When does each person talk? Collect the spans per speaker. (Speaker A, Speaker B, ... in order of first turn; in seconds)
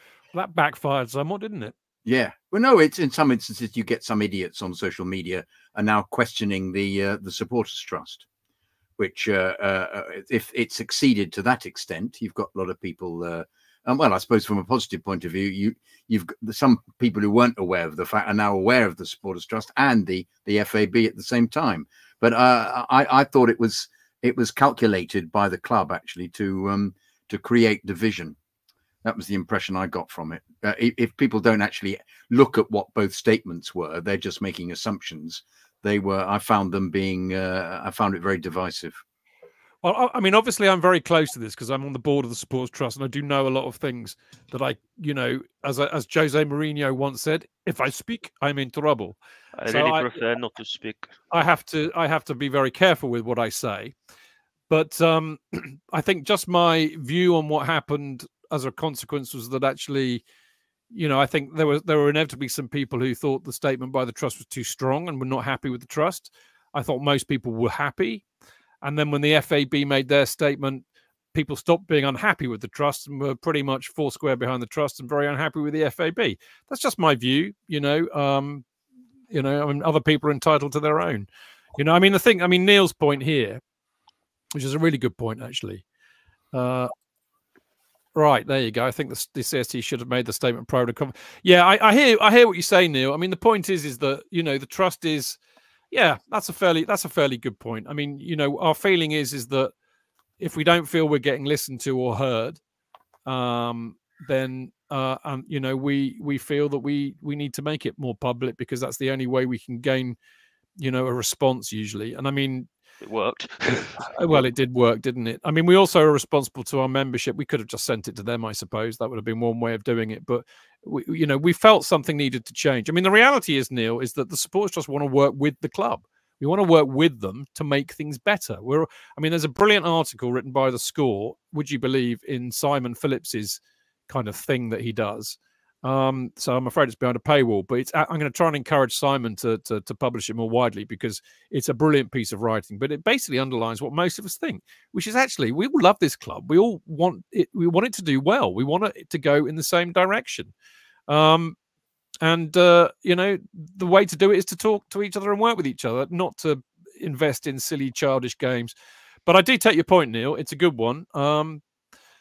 Speaker A: 0.3-1.7, 39.8-49.2, 49.7-50.2, 51.3-53.9, 54.7-60.2, 60.9-68.2, 68.8-70.8, 71.3-78.6, 79.3-83.6, 84.5-85.8, 86.5-86.9, 88.1-95.4, 95.9-99.7, 100.4-102.6, 103.2-110.2, 110.8-112.7, 113.7-150.5, 151.1-151.6, 152.2-158.7, 159.2-161.6
Speaker B: 2.0-8.2, 9.0-28.4, 29.0-39.0
Speaker C: 49.6-51.1, 113.0-114.4